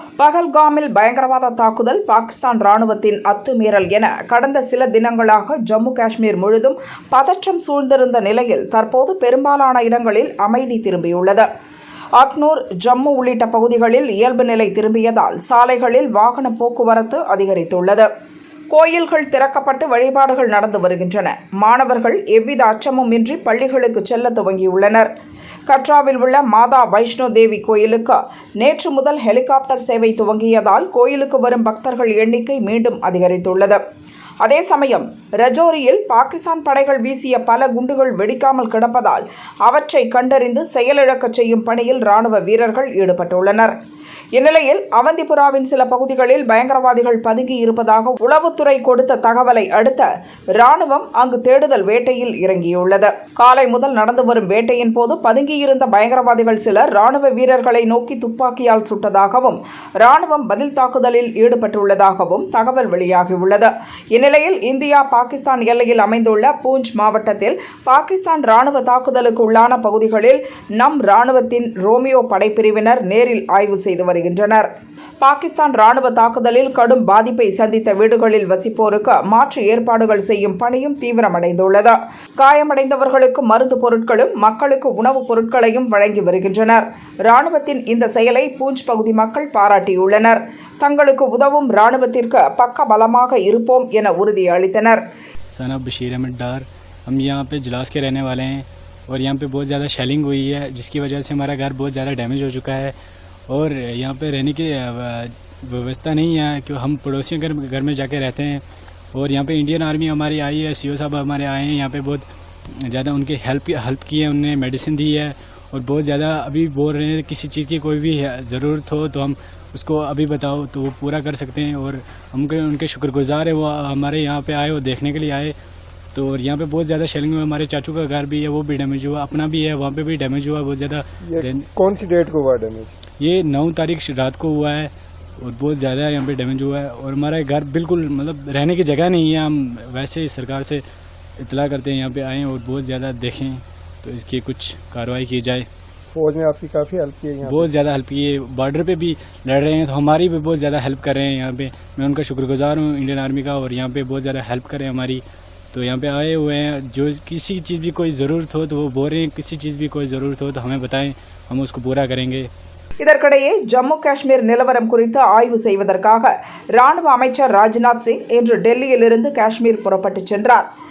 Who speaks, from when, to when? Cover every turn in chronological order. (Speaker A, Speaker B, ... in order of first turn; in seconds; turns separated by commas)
Speaker A: 0.2-11.5, Speaker A: 12.2-18.1, Speaker A: 18.7-25.1, Speaker A: 25.7-33.8, Speaker A: 34.4-43.7, Speaker A: 44.4-74.7, Speaker A: 75.2-95.0, Speaker B: 95.5-103.0, Speaker B: 103.5-125.5, Speaker B: 126.1-131.7, Speaker C: 131.2-132.9, Speaker B: 133.2-140.8, Speaker B: 141.4-145.7, Speaker C: 146.1-147.7, Speaker B: 147.4-162.5, Speaker A: 163.0-170.7